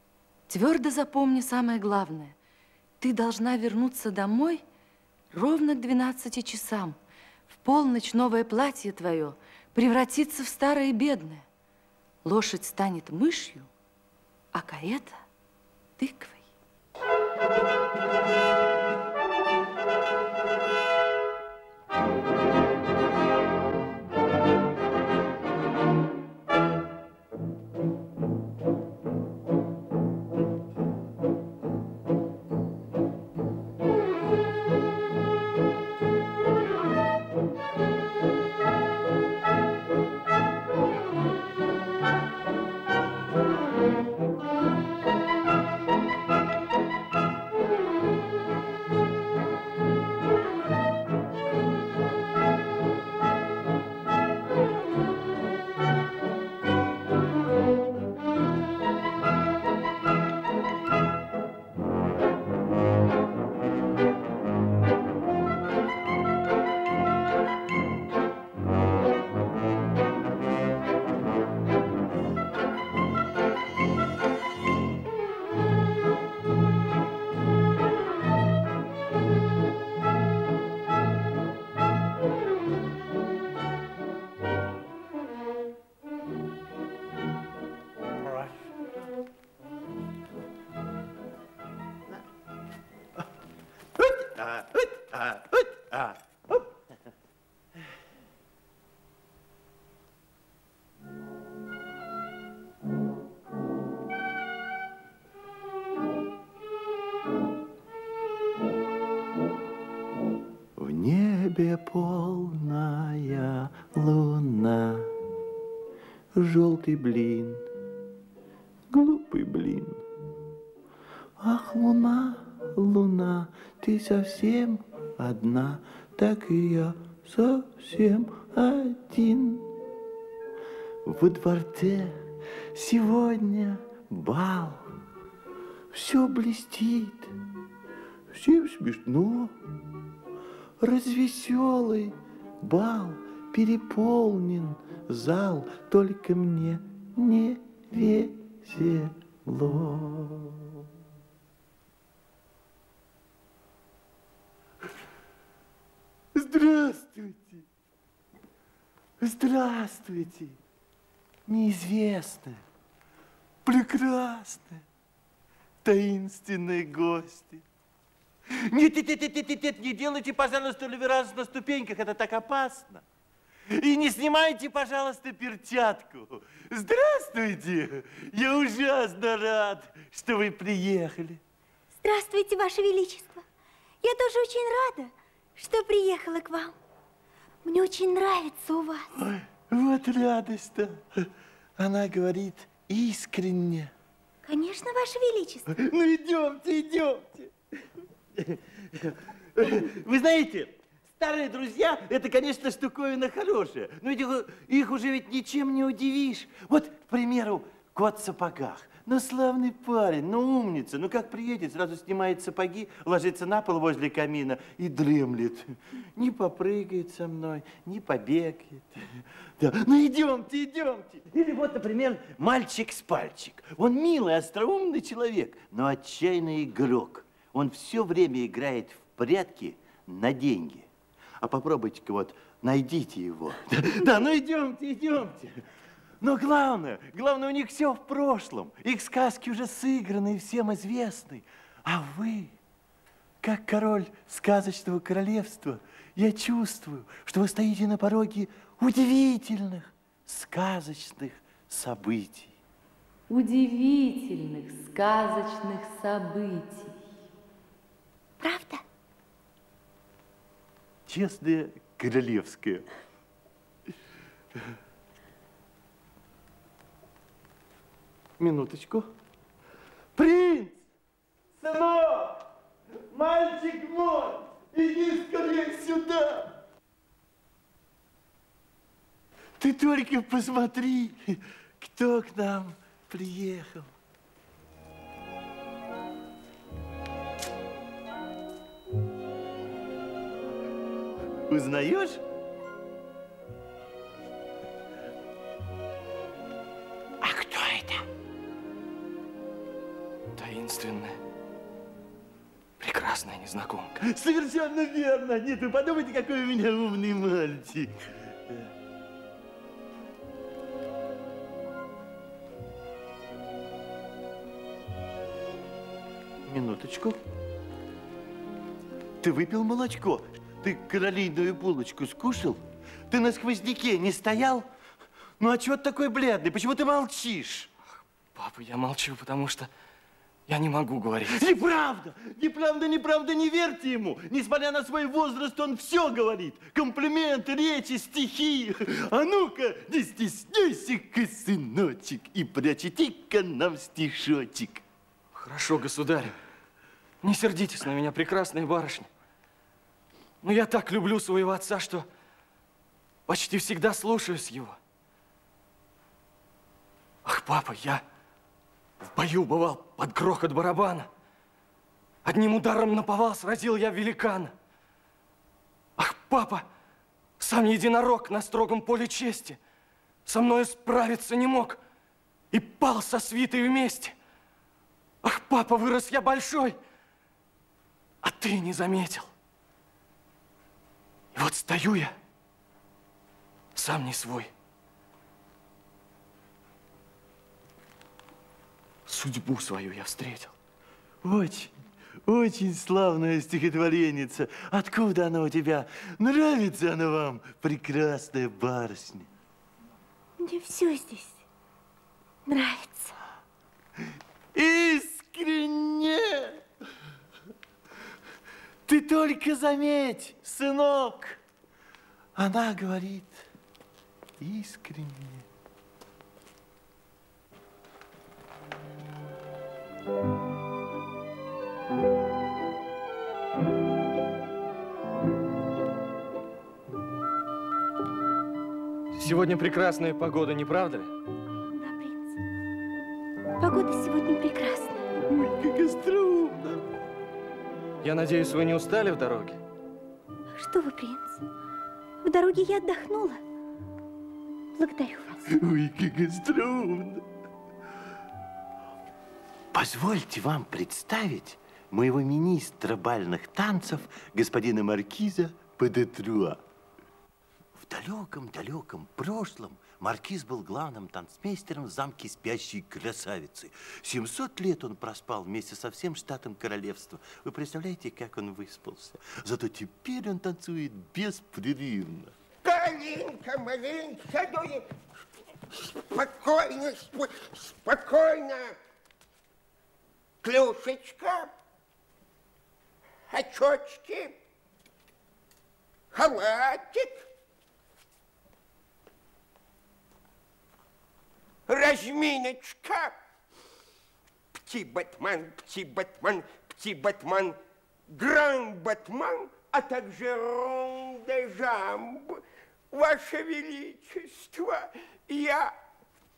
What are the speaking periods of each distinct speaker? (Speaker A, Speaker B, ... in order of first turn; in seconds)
Speaker A: 0.5-2.4, 3.0-4.6, 5.3-7.0, 7.5-11.4, 12.2-13.7, 14.5-15.2, 16.0-16.4, 253.3-257.0
Speaker B: 88.1-88.9, 94.0-96.7, 110.8-115.1, 116.3-117.7, 118.9-120.0, 121.4-129.7, 131.0-134.9, 135.9-137.3, 138.3-139.5, 140.8-150.8, 156.3-157.6, 159.2-160.6, 161.5-162.6, 163.6-164.8, 165.8-167.6, 168.5-173.0, 173.7-181.4, 189.2-193.9, 195.7-197.5, 198.4-230.9, 231.4-235.6, 236.2-242.5, 243.4-252.5, 261.1-262.9, 268.4-269.1, 270.1-270.8, 271.6-272.4, 273.1-276.6, 279.6-283.9, 291.5-292.2, 297.2-298.0, 304.0-308.7, 316.4-317.2, 319.2-324.7, 325.4-327.7, 331.3-344.8, 391.2-391.7, 392.2-399.3, 404.5-406.6, 408.9-411.4, 412.4-413.4, 414.4-415.4, 435.3-436.8, 445.5-447.2, 449.7-456.6, 457.8-472.4
Speaker C: 182.0-183.4, 184.0-186.7, 187.6-189.1, 194.4-195.7, 258.4-258.8, 400.4-401.4, 402.4-403.1, 431.7-432.4, 433.6-435.1, 440.5-441.4, 442.2-443.4, 444.8-445.4
Speaker D: 300.4-301.2, 302.8-304.0, 328.4-329.7, 330.5-331.4, 345.3-346.4, 347.2-349.1, 350.4-352.1, 353.3-354.8, 357.2-358.0, 359.1-361.1, 362.2-364.5, 366.0-366.7, 367.4-369.6, 370.2-371.8, 372.5-374.1, 375.2-376.8, 378.2-379.3, 381.3-382.1, 383.8-384.5, 389.1-390.5, 429.1-431.1, 438.0-439.6
Speaker E: 472.6-474.9, 475.9-478.8, 480.4-481.5, 483.3-484.4, 486.1-487.3, 491.7-493.1, 494.6-497.6, 498.1-505.7